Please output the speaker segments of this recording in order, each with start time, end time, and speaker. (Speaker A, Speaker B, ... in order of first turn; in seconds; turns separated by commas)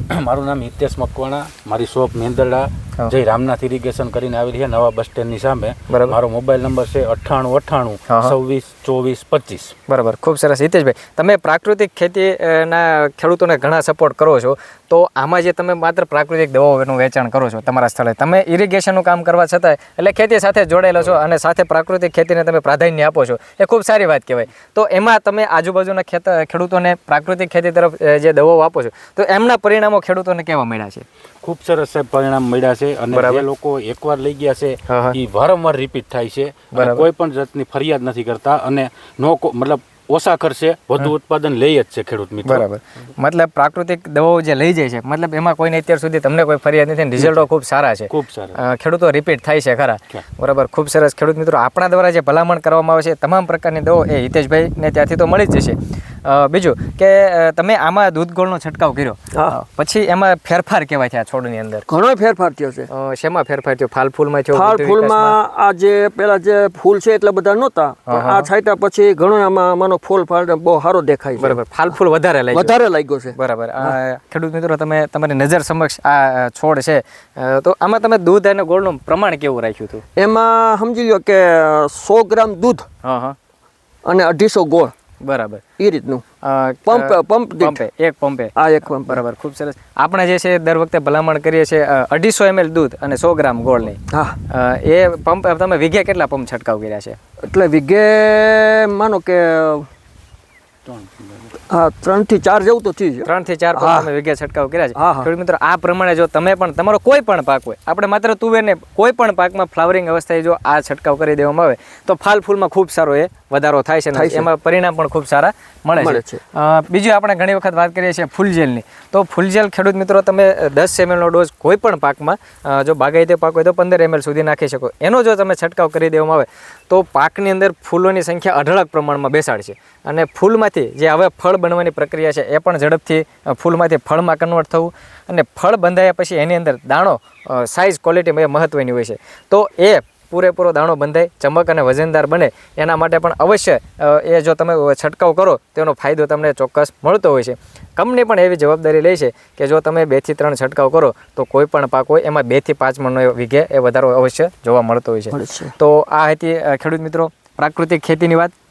Speaker A: 0.1-9.7, Speaker B: 5.9-6.2, Speaker B: 8.1-8.3, Speaker B: 9.9-31.1, Speaker A: 31.4-42.6, Speaker B: 33.1-33.4, Speaker B: 34.9-35.2, Speaker B: 36.7-37.0, Speaker B: 42.4-61.9, Speaker A: 47.2-47.4, Speaker A: 48.1-48.6, Speaker C: 61.9-62.9, Speaker B: 62.9-65.3, Speaker C: 64.5-71.6, Speaker B: 68.1-68.5, Speaker B: 71.4-72.7, Speaker C: 72.5-74.0, Speaker B: 73.3-80.0, Speaker C: 80.2-82.8, Speaker B: 83.0-83.3, Speaker C: 84.0-84.9, Speaker B: 85.2-85.6, Speaker C: 85.8-86.2, Speaker B: 86.4-94.0, Speaker C: 86.9-87.8, Speaker C: 88.5-89.2, Speaker C: 94.1-94.4, Speaker B: 94.5-97.2, Speaker C: 97.4-99.8, Speaker A: 100.8-101.5, Speaker C: 101.7-104.1, Speaker B: 103.2-158.5, Speaker C: 104.9-105.3, Speaker C: 114.1-114.5, Speaker C: 116.0-116.4, Speaker C: 155.3-155.7